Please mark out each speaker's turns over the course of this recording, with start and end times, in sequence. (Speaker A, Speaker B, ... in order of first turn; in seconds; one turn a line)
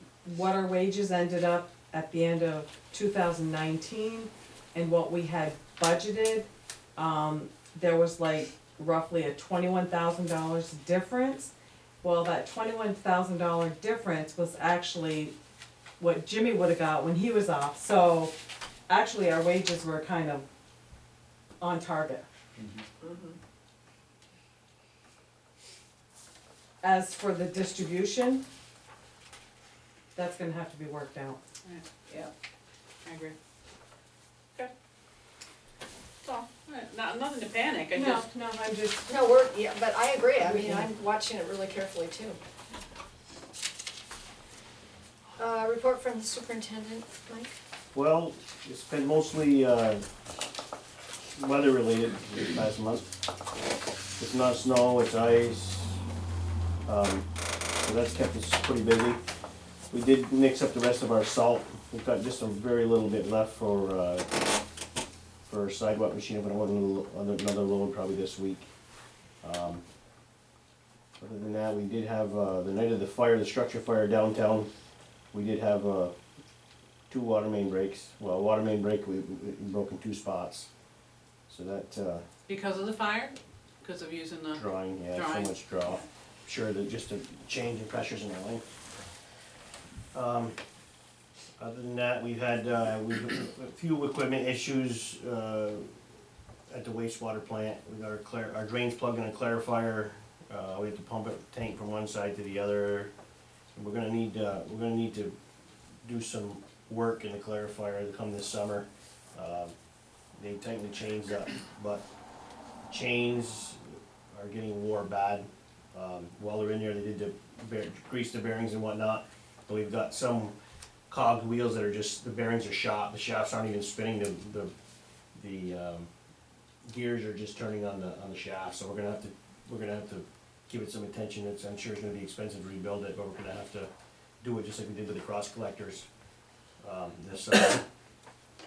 Speaker A: 0.2-15.3
Speaker A: 16.0-18.3
Speaker A: 18.9-20.4
Speaker A: 21.6-22.3
Speaker B: 23.0-23.4
Speaker A: 26.8-28.4
Speaker A: 30.1-31.4
Speaker C: 33.0-33.4
Speaker C: 36.2-38.2
Speaker A: 37.9-39.1
Speaker B: 39.1-42.4
Speaker A: 40.4-40.9
Speaker B: 45.4-47.5
Speaker D: 47.9-50.0
Speaker D: 51.4-53.1
Speaker D: 54.2-56.0
Speaker D: 56.9-57.3
Speaker D: 57.8-59.2
Speaker D: 59.9-64.3
Speaker D: 65.5-68.7
Speaker D: 69.4-69.8
Speaker D: 71.2-74.7
Speaker D: 75.3-76.1
Speaker D: 77.1-80.7
Speaker D: 81.5-82.2
Speaker C: 82.5-85.7
Speaker D: 84.5-88.6
Speaker D: 90.1-90.6
Speaker D: 91.6-95.9
Speaker D: 96.7-103.1
Speaker D: 103.7-105.3
Speaker D: 106.0-109.7
Speaker D: 110.4-112.0
Speaker D: 112.9-120.5
Speaker D: 121.1-124.7
Speaker D: 125.3-126.1
Speaker D: 126.9-133.9
Speaker D: 134.4-136.1
Speaker D: 136.8-137.8